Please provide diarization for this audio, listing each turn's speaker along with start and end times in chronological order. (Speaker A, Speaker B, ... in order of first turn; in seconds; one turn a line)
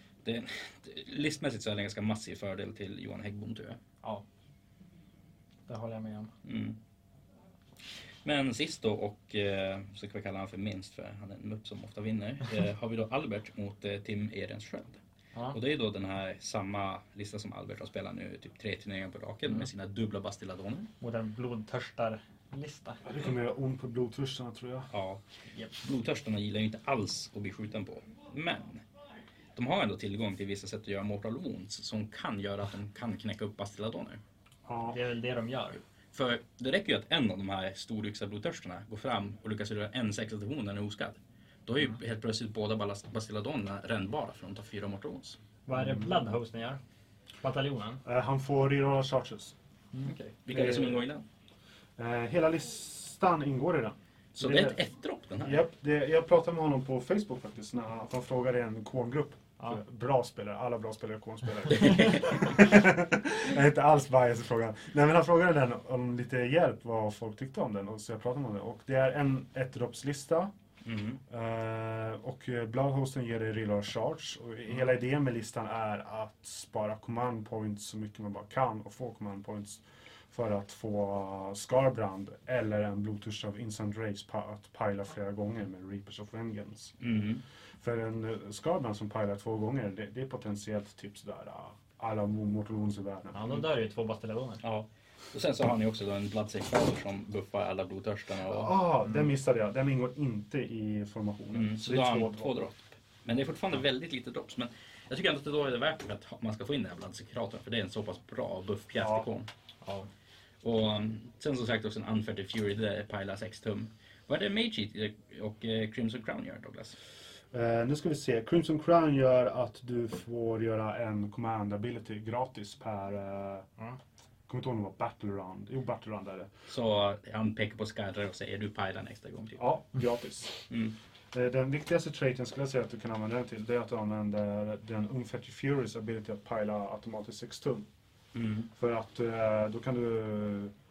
Speaker A: 0.2-3.8
Speaker B: 5.7-6.3
Speaker A: 6.4-6.8
Speaker A: 8.2-15.0
Speaker A: 15.5-20.9
Speaker B: 21.0-23.0
Speaker C: 23.0-24.9
Speaker A: 24.9-25.2
Speaker A: 25.8-28.8
Speaker A: 29.5-34.2
Speaker C: 34.6-35.0
Speaker B: 34.9-35.8
Speaker A: 36.1-45.4
Speaker B: 45.6-46.8
Speaker C: 45.7-46.1
Speaker B: 47.4-48.0
Speaker C: 48.0-49.5
Speaker A: 50.0-51.2
Speaker C: 50.5-51.1
Speaker C: 52.0-54.8
Speaker A: 54.4-55.6
Speaker C: 55.4-70.5
Speaker A: 61.7-62.3
Speaker A: 70.8-71.2
Speaker C: 71.3-87.0
Speaker A: 87.0-87.4
Speaker C: 87.8-93.6
Speaker B: 93.3-94.6
Speaker A: 94.6-98.8
Speaker C: 98.5-102.5
Speaker A: 101.5-109.5
Speaker C: 109.0-109.2
Speaker B: 109.8-110.1
Speaker A: 110.6-117.0
Speaker C: 117.5-123.7
Speaker C: 124.5-126.5
Speaker A: 126.7-129.7
Speaker C: 129.6-130.7
Speaker A: 130.7-130.9
Speaker C: 131.3-137.8
Speaker A: 138.3-138.7
Speaker C: 138.7-140.7